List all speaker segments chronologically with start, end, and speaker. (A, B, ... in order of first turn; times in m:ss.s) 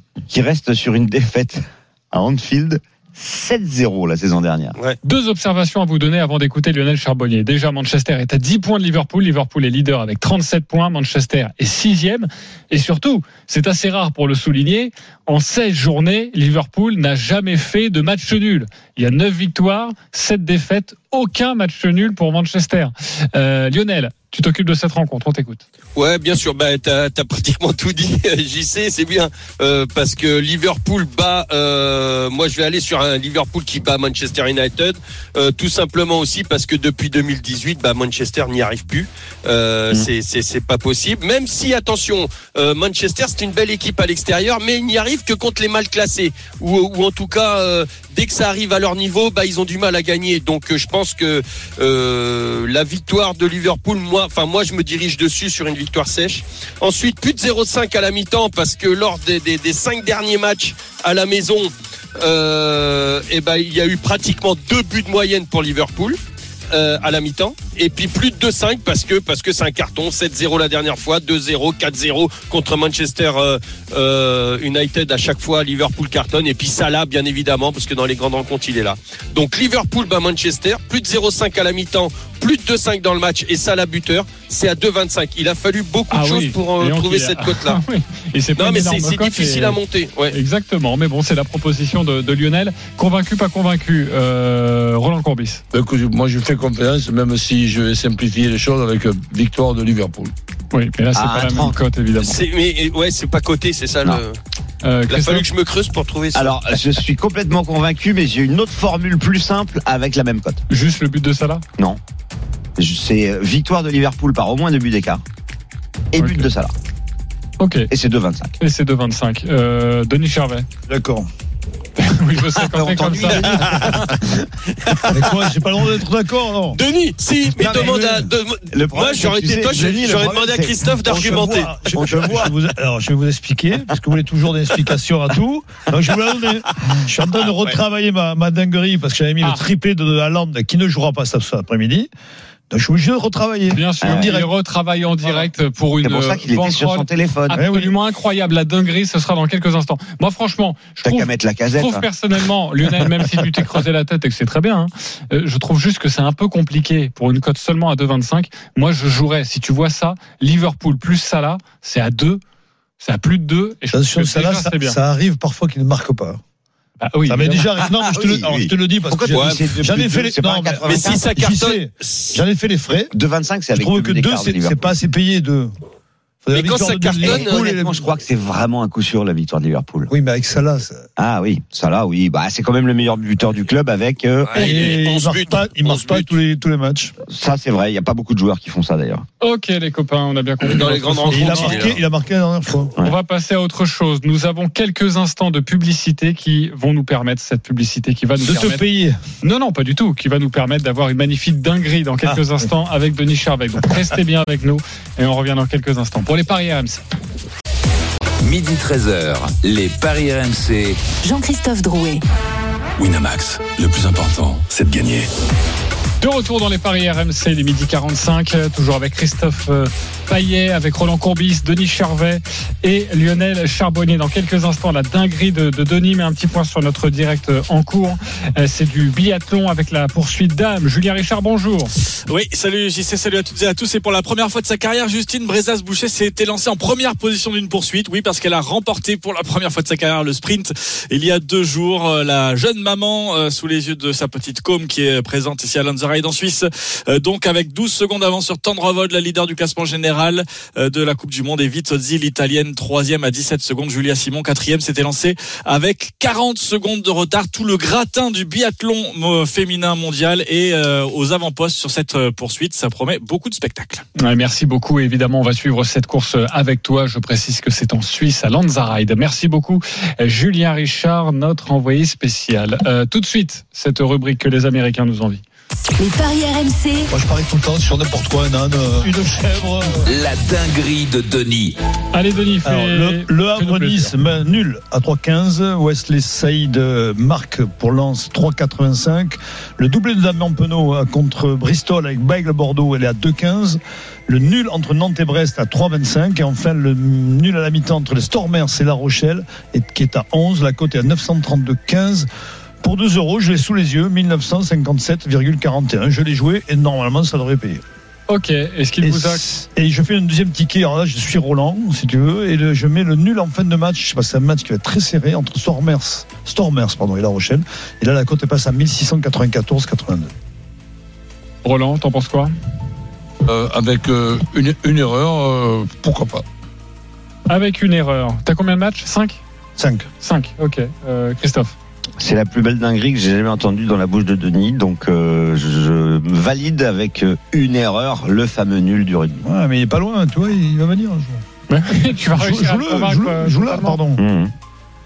0:00.3-0:04.8 A
0:05.0-0:25.6 B
0:26.0-1:06.2 C
1:06.7-1:27.8 C
1:26.1-1:29.8 B
1:28.6-1:30.4 C
1:30.3-1:35.6 B
1:35.7-1:40.3 D
1:40.7-1:42.4 B
1:41.2-1:41.8 A
1:42.2-1:44.4 C
1:44.8-1:45.5 B
1:45.1-1:46.6 C
1:46.3-1:50.6 A
1:50.7-1:51.6 B
1:52.8-1:55.2 A
1:56.1-1:56.7 A
1:56.2-1:56.5 B
1:57.6-1:57.9 B
1:57.9-1:58.5 A
1:58.6-2:00.7 B
2:00.9-2:01.3 E
2:02.0-2:03.9 B
2:02.6-2:05.2 A
2:03.2-2:04.0 C
2:05.1-2:06.8 E
2:06.7-2:11.7 C
2:07.6-2:12.5 A
2:11.0-2:22.1 E
2:22.7-2:24.5 E
2:23.7-2:42.4 B
2:24.0-2:24.4 A
2:26.0-2:27.6 A
2:27.5-2:27.9 E
2:31.0-2:32.1 A
2:43.0-2:45.0 B
2:43.9-2:46.4 E
2:47.0-2:47.7 B
2:47.3-2:53.1 E
2:47.9-2:51.3 A
2:49.3-2:49.8 C
2:50.8-2:52.4 C
2:53.1-2:54.8 A
2:53.7-2:55.7 E
2:56.4-2:58.0 E
2:56.5-2:57.7 C
2:57.1-3:00.1 A
3:00.1-3:01.1 E
3:01.2-3:04.9 A
3:04.5-3:06.3 C
3:04.6-3:07.1 E
3:07.3-3:09.3 A
3:09.4-3:11.9 B
3:10.6-3:12.0 C
3:11.3-3:12.9 E
3:13.0-3:18.8 B
3:18.4-3:19.2 E
3:19.4-3:27.0 B
3:22.2-3:22.7 E
3:28.4-3:31.0 F
3:31.2-3:32.2 G
3:33.0-3:35.3 H
3:36.2-3:51.9 B
3:52.3-4:24.0 I
4:24.2-4:35.4 B
4:36.0-4:37.1 G
4:37.1-4:40.1 E
4:40.0-4:41.8 F
4:42.1-4:44.1 B
4:42.6-5:02.3 E
5:02.8-5:07.8 E
5:08.3-5:09.4 B
5:09.0-5:20.3 E
5:21.6-5:22.5 B
5:23.4-5:26.4 D
5:27.5-5:29.4 B
5:29.8-5:30.1 E
5:30.2-5:31.8 B
5:32.2-5:39.4 A
5:39.4-5:41.4 E
5:41.7-5:44.0 B
5:42.3-5:44.2 E
5:44.2-5:44.5 A